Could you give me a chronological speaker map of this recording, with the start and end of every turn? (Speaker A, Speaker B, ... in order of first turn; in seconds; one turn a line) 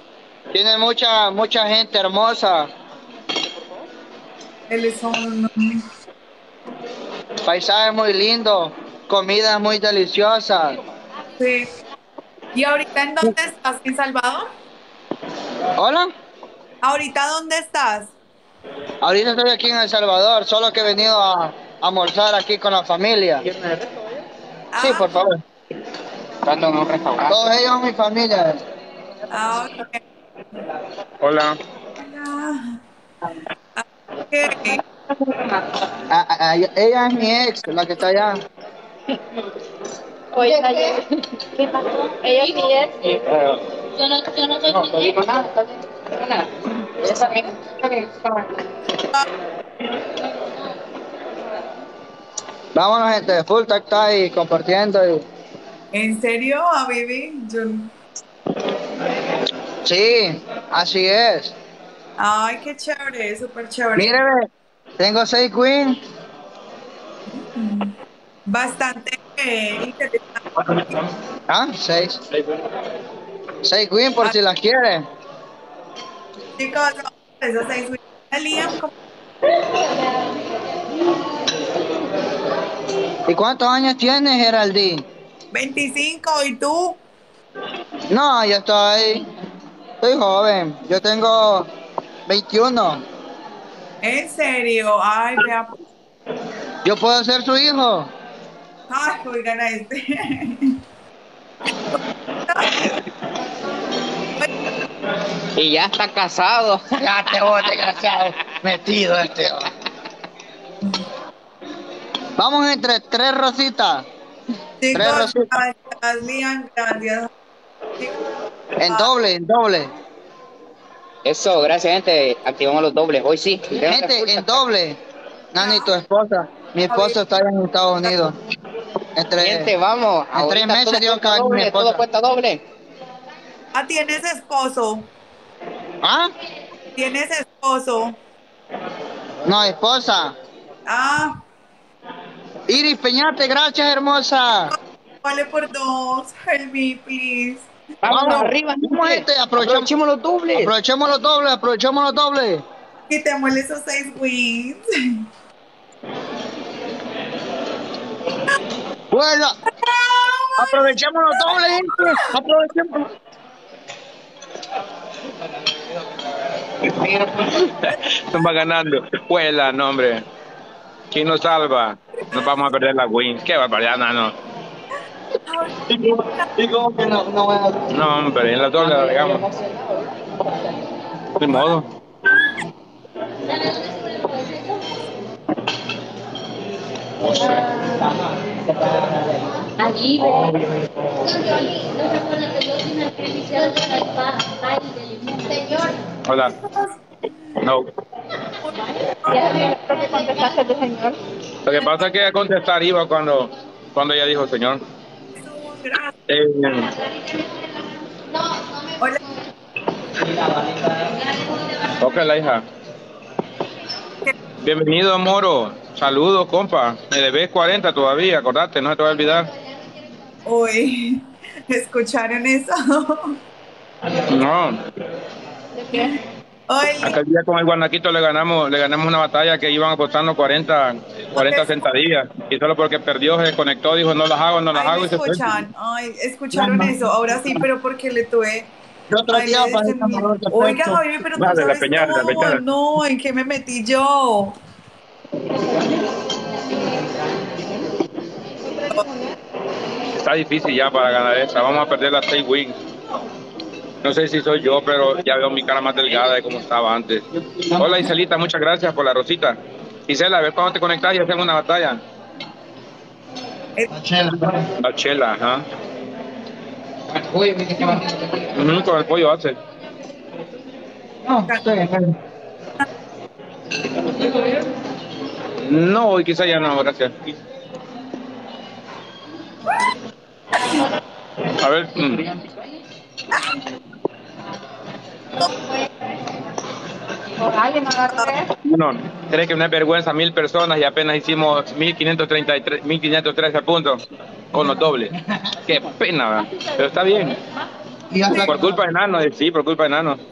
Speaker A: 0.5-2.7
Speaker B: 4.7-5.8
Speaker A: 7.4-10.8
Speaker B: 11.4-11.7
Speaker B: 12.6-14.5
Speaker A: 15.8-16.1
Speaker B: 16.8-18.1
Speaker A: 19.0-23.4
Speaker B: 24.7-25.2
Speaker A: 24.8-25.4
Speaker C: 26.4-27.4
Speaker A: 27.3-28.6
Speaker B: 29.3-30.0
Speaker D: 31.2-31.6
Speaker B: 32.0-32.8
Speaker B: 33.8-34.8
Speaker A: 36.1-38.4
Speaker E: 40.3-43.2
Speaker C: 43.1-43.6
Speaker F: 43.9-45.2
Speaker C: 44.7-46.5
Speaker C: 47.0-48.4
Speaker A: 52.8-55.2
Speaker B: 55.9-57.9
Speaker A: 59.9-61.5
Speaker B: 62.2-64.1
Speaker A: 64.0-64.5
Speaker A: 65.0-66.0
Speaker B: 67.4-68.0
Speaker B: 68.5-70.4
Speaker A: 71.5-72.2
Speaker A: 73.6-75.1
Speaker B: 76.6-78.9
Speaker A: 83.3-85.0
Speaker B: 85.5-87.0
Speaker A: 88.1-89.2
Speaker A: 90.0-91.7
Speaker A: 92.3-93.0
Speaker B: 94.0-95.8
Speaker A: 96.8-98.1
Speaker B: 98.9-100.8
Speaker B: 102.5-103.0
Speaker C: 105.5-108.5
Speaker A: 107.0-109.7
Speaker A: 112.4-114.0
Speaker B: 114.8-117.3
Speaker A: 114.9-115.5
Speaker A: 118.8-119.9
Speaker C: 121.2-124.6
Speaker A: 123.8-125.0
Speaker A: 125.5-128.4
Speaker B: 125.6-125.9
Speaker B: 126.9-127.2
Speaker A: 129.2-129.7
Speaker C: 129.4-132.6
Speaker A: 130.3-132.0
Speaker B: 133.7-135.1
Speaker A: 136.0-136.3
Speaker B: 137.0-138.2
Speaker A: 139.4-140.3
Speaker B: 140.9-141.4
Speaker A: 142.7-144.7
Speaker B: 145.2-147.7
Speaker C: 148.0-150.7
Speaker A: 148.1-152.6
Speaker B: 153.1-155.2
Speaker A: 159.1-159.6
Speaker B: 159.8-160.9
Speaker A: 160.6-163.1
Speaker C: 166.9-167.6
Speaker D: 167.8-170.2
Speaker D: 171.1-174.3
Speaker B: 175.5-176.5
Speaker A: 176.6-177.9
Speaker D: 177.9-179.4
Speaker D: 181.3-181.9
Speaker D: 187.2-187.7
Speaker F: 189.8-190.5
Speaker D: 190.2-190.5
Speaker F: 191.6-195.5
Speaker E: 195.5-196.0
Speaker D: 196.3-196.5
Speaker D: 197.6-197.9
Speaker B: 199.2-199.7
Speaker E: 199.3-201.2
Speaker D: 201.7-204.8
Speaker B: 205.4-206.1
Speaker D: 206.3-206.9
Speaker D: 212.0-212.6
Speaker D: 214.6-219.5
Speaker B: 220.5-223.4
Speaker D: 224.2-224.8
Speaker B: 226.7-227.2
Speaker D: 227.0-235.6
Speaker B: 231.3-231.7
Speaker B: 234.7-238.7
Speaker A: 236.5-237.0
Speaker A: 239.1-240.9
Speaker B: 239.3-244.6
Speaker D: 240.6-242.6
Speaker E: 248.8-249.3
Speaker D: 250.2-252.8
Speaker D: 254.0-257.2
Speaker C: 257.6-258.1
Speaker D: 257.8-259.6
Speaker D: 260.1-262.0
Speaker A: 263.9-264.6
Speaker D: 264.8-265.6
Speaker C: 267.1-268.6
Speaker D: 268.6-269.6
Speaker A: 271.2-272.1
Speaker B: 271.5-271.8
Speaker D: 275.6-277.1
Speaker D: 281.6-282.3
Speaker E: 287.4-288.5
Speaker D: 288.6-294.0
Speaker D: 294.5-295.1
Speaker D: 295.7-297.4
Speaker A: 298.1-298.7
Speaker D: 298.4-300.2